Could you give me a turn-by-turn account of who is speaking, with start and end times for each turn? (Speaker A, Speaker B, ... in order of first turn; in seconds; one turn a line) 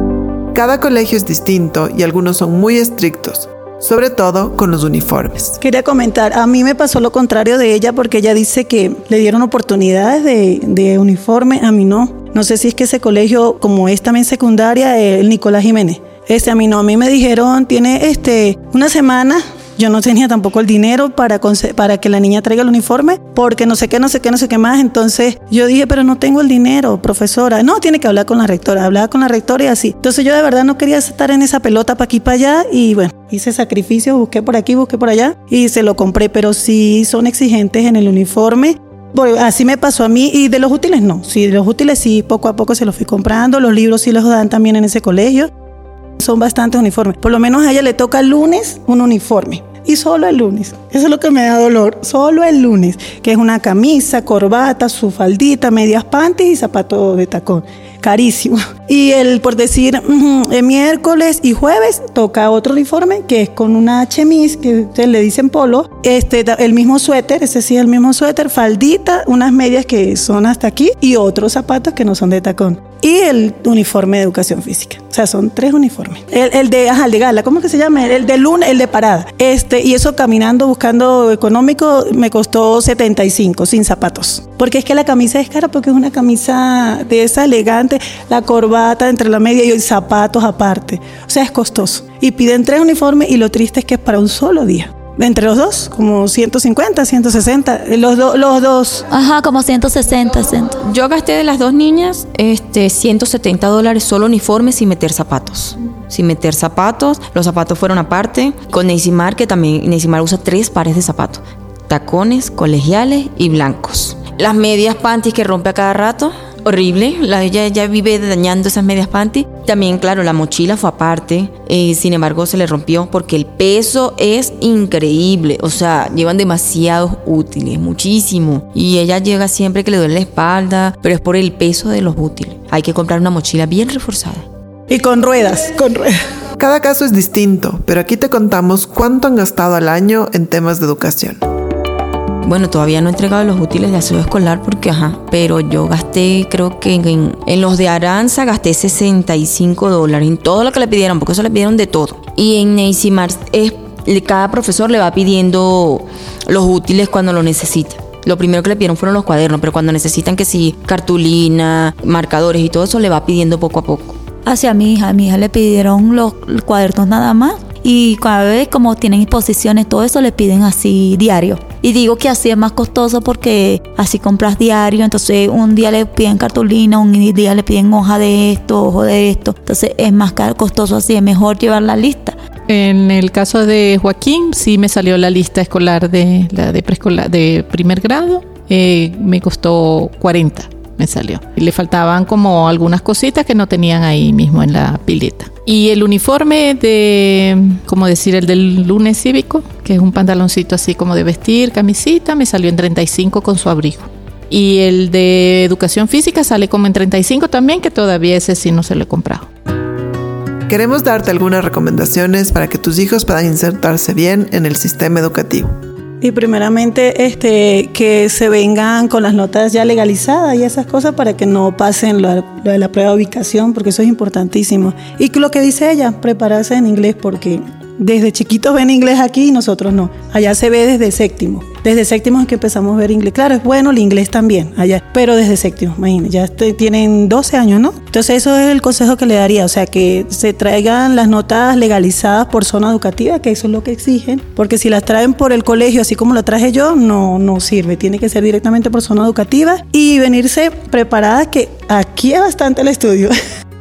Speaker A: 0.5-5.6
Speaker B: 5.6-45.5
Speaker B: 46.2-99.0
Speaker C: 99.1-100.8
Speaker D: 100.8-134.5
Speaker B: 134.9-136.2
Speaker A: 136.6-141.4
Speaker D: 142.4-164.2
Speaker C: 164.4-182.4
Speaker E: 182.7-209.5
Speaker A: 210.7-215.7
Speaker B: 216.2-253.3